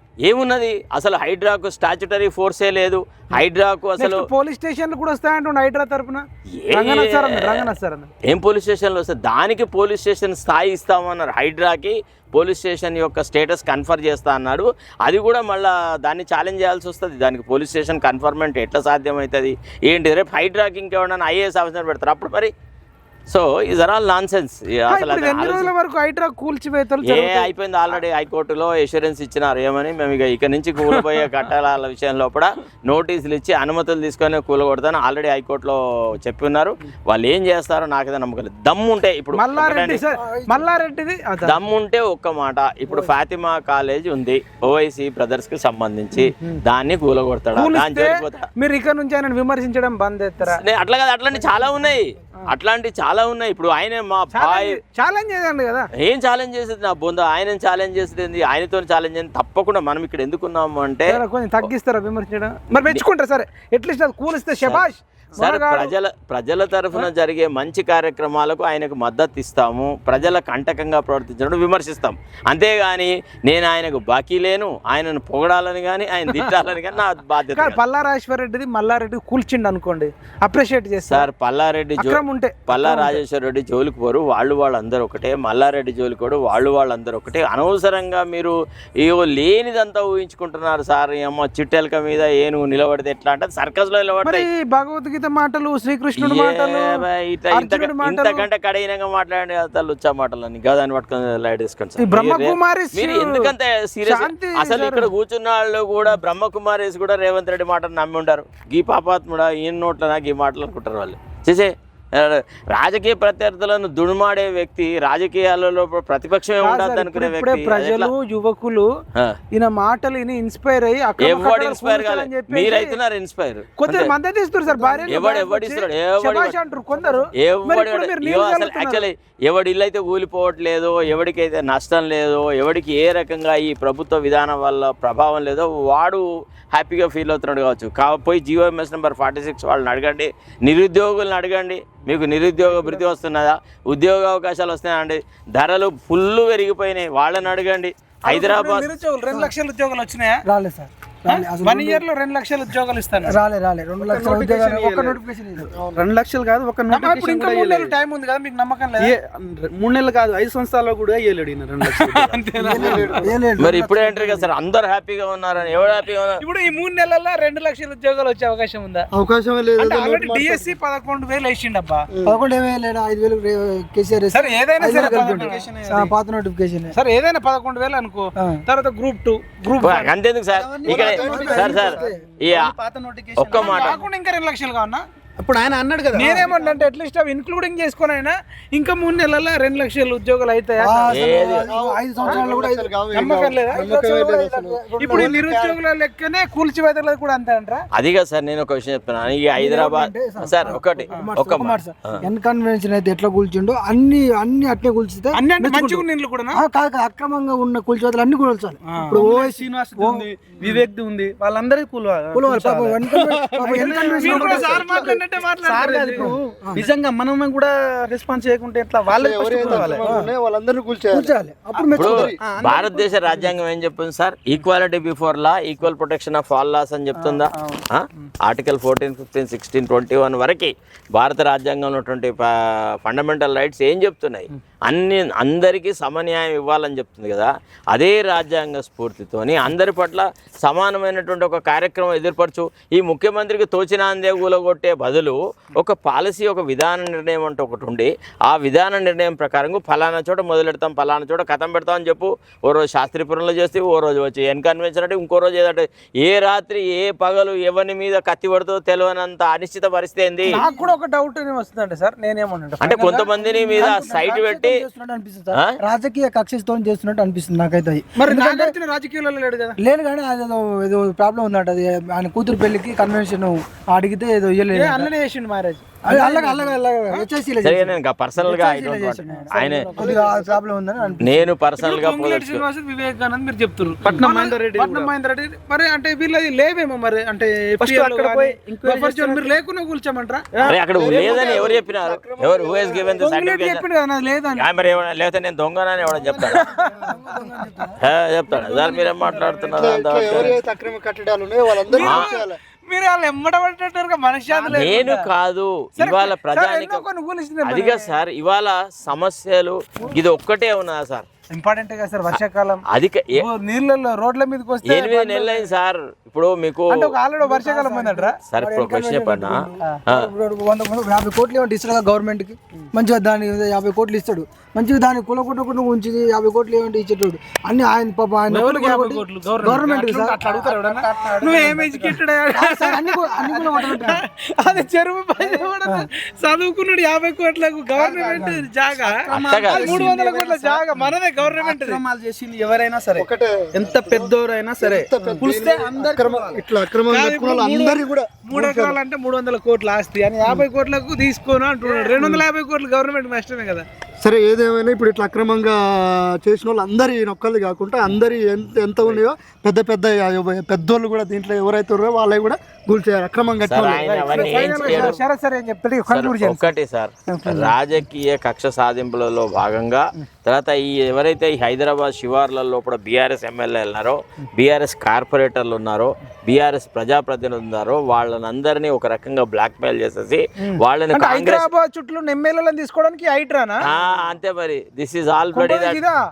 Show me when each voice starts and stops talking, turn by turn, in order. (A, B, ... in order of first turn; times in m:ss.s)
0:00.2-0:04.3 A
0:04.0-0:08.1 B
0:06.6-0:07.7 A
0:08.3-0:22.5 A
0:23.3-0:25.7 A
0:24.9-0:28.0 B
0:27.0-0:40.0 A
0:30.9-0:31.2 B
0:39.3-0:41.6 B
0:40.2-0:40.7 C
0:41.4-0:48.5 A
0:47.5-0:50.6 B
0:50.4-0:54.8 A
0:54.3-0:55.9 B
0:56.0-1:01.7 A
1:01.1-1:05.9 B
1:05.4-1:17.8 A
1:17.6-1:21.3 B
1:21.1-1:34.5 A
1:22.0-1:23.2 B
1:34.2-1:38.4 B
1:36.2-1:58.1 A
1:42.0-1:43.5 B
1:44.0-1:45.1 B
1:56.6-1:58.9 B
1:59.5-2:02.9 B
2:01.2-2:04.1 A
2:03.8-2:09.1 B
2:04.7-2:05.3 C
2:05.1-2:06.6 A
2:06.9-2:07.2 C
2:07.4-2:28.9 A
2:22.7-2:23.0 B
2:28.3-2:30.4 B
2:30.4-2:32.0 C
2:31.3-2:33.4 B
2:33.2-2:35.9 C
2:34.0-2:35.2 D
2:35.8-2:37.9 D
2:36.9-2:39.1 B
2:39.0-2:43.2 D
2:41.8-2:43.3 B
2:42.5-2:44.4 C
2:42.8-2:43.3 E
2:43.6-2:46.4 A
2:46.4-2:49.1 B
2:49.1-2:50.7 E
2:49.8-2:52.1 B
2:52.1-2:52.4 E
2:52.2-2:56.9 C
2:54.3-2:55.6 B
2:54.8-2:56.1 D
2:56.9-3:00.1 B
2:59.8-3:02.7 A
3:00.5-3:04.0 D
3:00.8-3:02.2 C
3:03.4-3:04.0 A
3:03.5-3:05.0 B
3:05.4-3:06.8 D
3:06.1-3:11.1 B
3:10.8-3:13.0 C
3:11.1-3:11.7 A
3:11.1-3:15.8 E
3:13.1-3:13.9 B
3:13.7-3:15.4 C
3:15.0-3:17.8 B
3:17.9-3:22.2 A
3:19.5-3:30.3 C
3:25.3-3:26.6 B
3:28.9-3:29.2 B
3:29.1-3:35.1 D
3:32.3-3:35.2 C
3:33.5-3:36.3 B
3:35.6-3:40.1 D
3:36.1-3:36.8 C
3:39.1-3:41.3 E
3:39.7-3:40.3 C
3:41.1-3:42.3 C
3:41.9-3:42.4 E
3:41.9-3:52.5 A
3:42.3-3:43.5 D
3:47.2-3:47.8 B
3:53.0-4:20.6 A
4:20.4-4:23.3 B
4:20.5-4:20.9 C
4:22.8-4:24.8 A
4:23.3-4:28.7 C
4:25.5-4:25.8 A
4:28.2-4:29.8 B
4:29.8-4:35.1 C
4:34.7-4:37.2 B
4:36.0-4:41.5 C
4:37.6-4:39.9 A
4:40.0-4:40.6 E
4:41.2-4:42.6 A
4:41.8-4:50.4 B
4:44.0-4:45.1 D
4:47.8-4:49.5 D
4:50.5-4:51.8 D
4:50.6-4:53.8 A
4:50.9-4:53.2 E
4:53.2-4:54.6 B
4:54.6-4:56.7 A
4:56.5-4:58.0 C
4:56.5-4:57.6 B
4:58.0-5:00.6 A
4:59.7-5:02.6 E
5:01.8-5:05.3 B
5:02.0-5:02.3 A
5:04.7-5:07.0 A
5:06.0-5:08.1 B
5:07.6-5:11.2 A
5:11.5-5:12.8 B
5:12.9-5:13.4 A
5:13.4-5:15.7 B
5:14.8-5:16.9 A
5:16.9-5:18.4 B
5:17.4-5:34.2 C
5:18.5-5:20.3 A
5:28.5-5:42.0 B
5:35.5-5:36.0 C
5:38.0-5:46.6 D
5:39.3-5:40.1 A
5:43.2-5:49.0 E
5:47.1-5:53.8 B
5:51.9-5:52.4 D
5:54.2-6:05.1 E
6:03.6-6:05.2 A
6:04.0-6:06.7 B
6:06.1-6:21.7 A
6:07.3-6:07.7 B
6:21.1-6:23.8 B
6:23.8-6:26.0 A
6:25.5-6:26.2 B